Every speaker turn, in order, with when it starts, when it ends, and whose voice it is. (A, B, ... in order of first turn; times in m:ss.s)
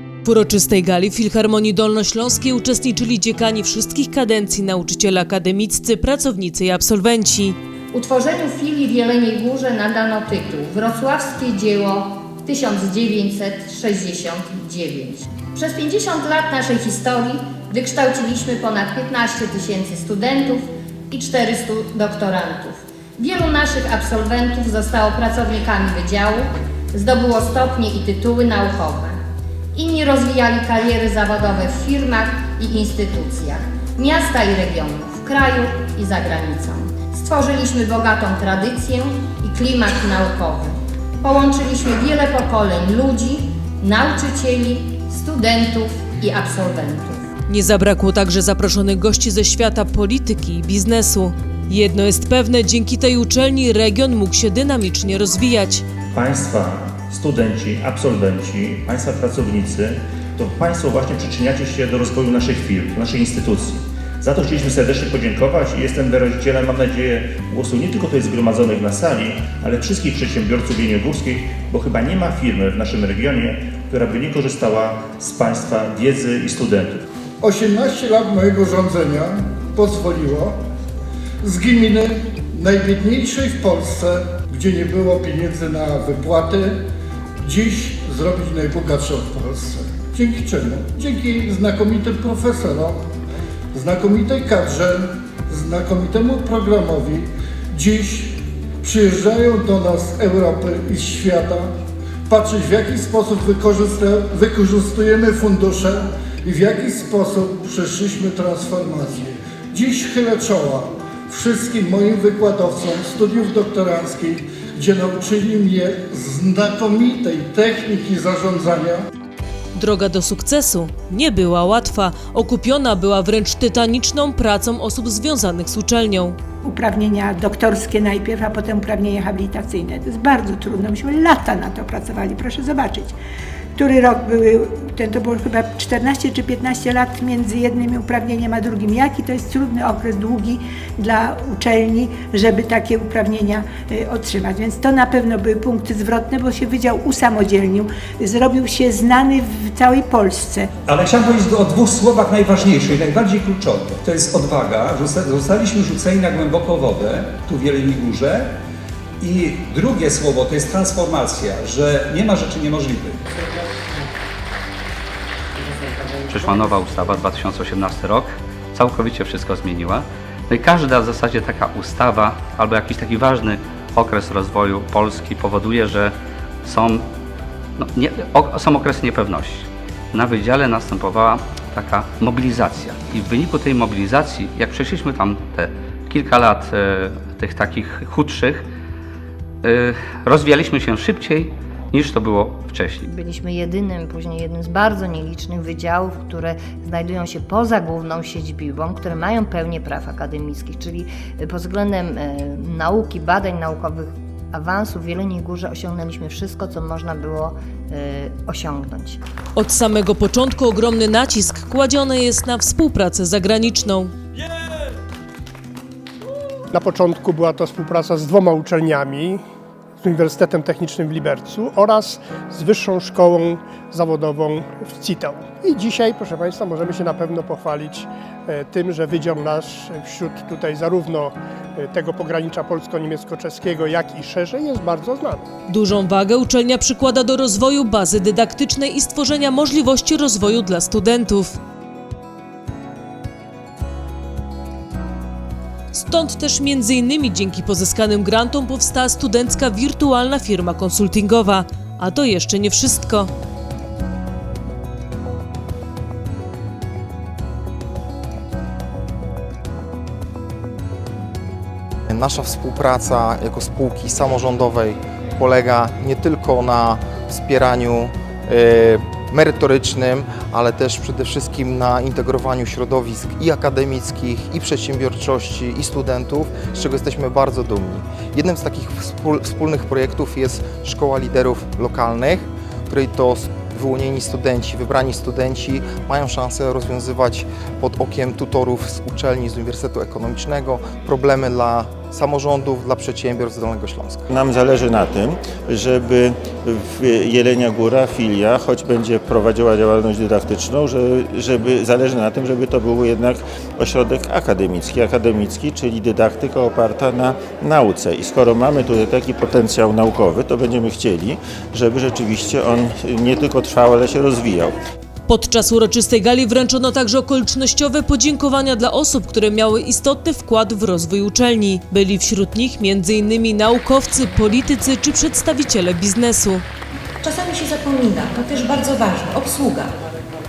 0:00.2-0:07.6 A
0:07.9-0:29.2 B
0:29.8-0:47.2 B
0:47.5-0:55.8 A
0:56.1-1:17.0 C
1:17.4-1:20.6 D
1:21.4-1:26.8 D
1:27.4-1:33.0 D
1:33.7-1:41.7 D
1:42.3-1:59.0 D
1:59.8-2:06.4 A
2:06.6-2:13.1 E
2:13.8-2:30.7 E
2:30.9-2:38.5 F
2:39.2-2:43.2 F
2:46.2-2:56.1 G
2:56.6-2:57.0 G
2:57.8-3:08.6 G
3:09.6-3:13.1 G
3:13.2-3:24.0 H
3:24.6-3:27.5 H
3:28.2-3:29.1 H
3:29.6-3:34.1 A
3:36.7-3:39.4 I
3:40.0-3:55.5 I
3:55.7-4:01.6 A
4:05.9-4:13.3 A
4:22.1-4:54.3 J
4:54.3-5:14.8 K
5:15.3-5:26.6 A
5:27.2-5:29.9 L